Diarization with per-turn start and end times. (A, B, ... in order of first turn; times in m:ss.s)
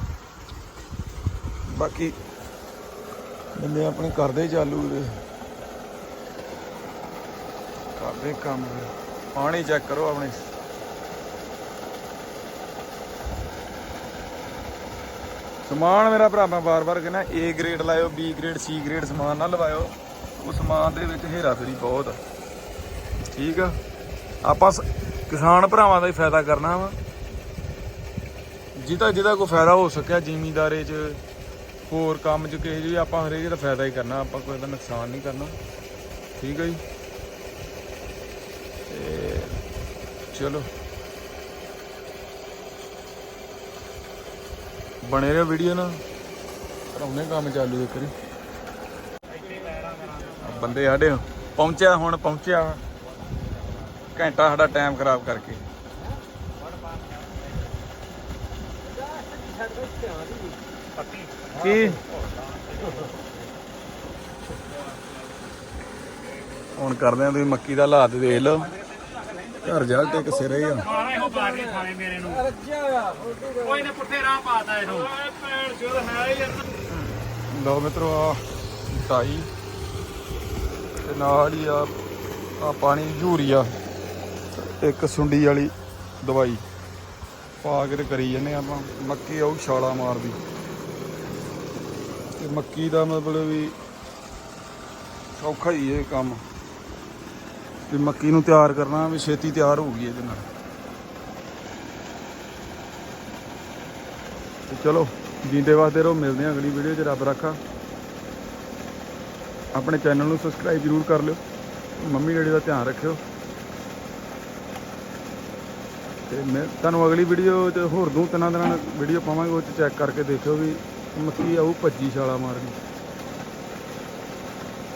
0:01.7-0:02.2 A
0:03.6-0:05.2 A
0:08.0-0:10.5 A
0:15.6-0:22.2 A
0:23.3-0:23.8 A
0:24.4-0:27.0 A
0:28.8-0:31.2 A
0:31.8-0:35.6 A
0:36.4-0:36.8 A
0:38.9-0:39.6 A
0:40.3-0:40.7 A
0:45.0-0:46.0 A
0:46.9-0:48.1 A
0:49.3-0:50.4 B
0:50.4-0:52.8 A
0:54.1-0:55.6 A
0:56.7-0:57.2 B
0:59.2-1:01.5 B
1:01.5-1:02.0 A
1:02.5-1:03.2 B
1:06.8-1:08.8 A
1:09.6-1:11.0 A
1:10.9-1:16.6 B
1:16.9-1:19.5 A
1:21.0-1:21.9 A
1:22.6-1:23.7 A
1:24.5-1:26.6 A
1:27.6-1:30.4 A
1:32.4-1:33.8 A
1:35.3-1:36.4 A
1:37.9-1:40.5 A
1:44.7-1:47.6 A
1:49.7-1:51.4 A
1:52.0-1:53.2 A
1:56.3-2:02.8 A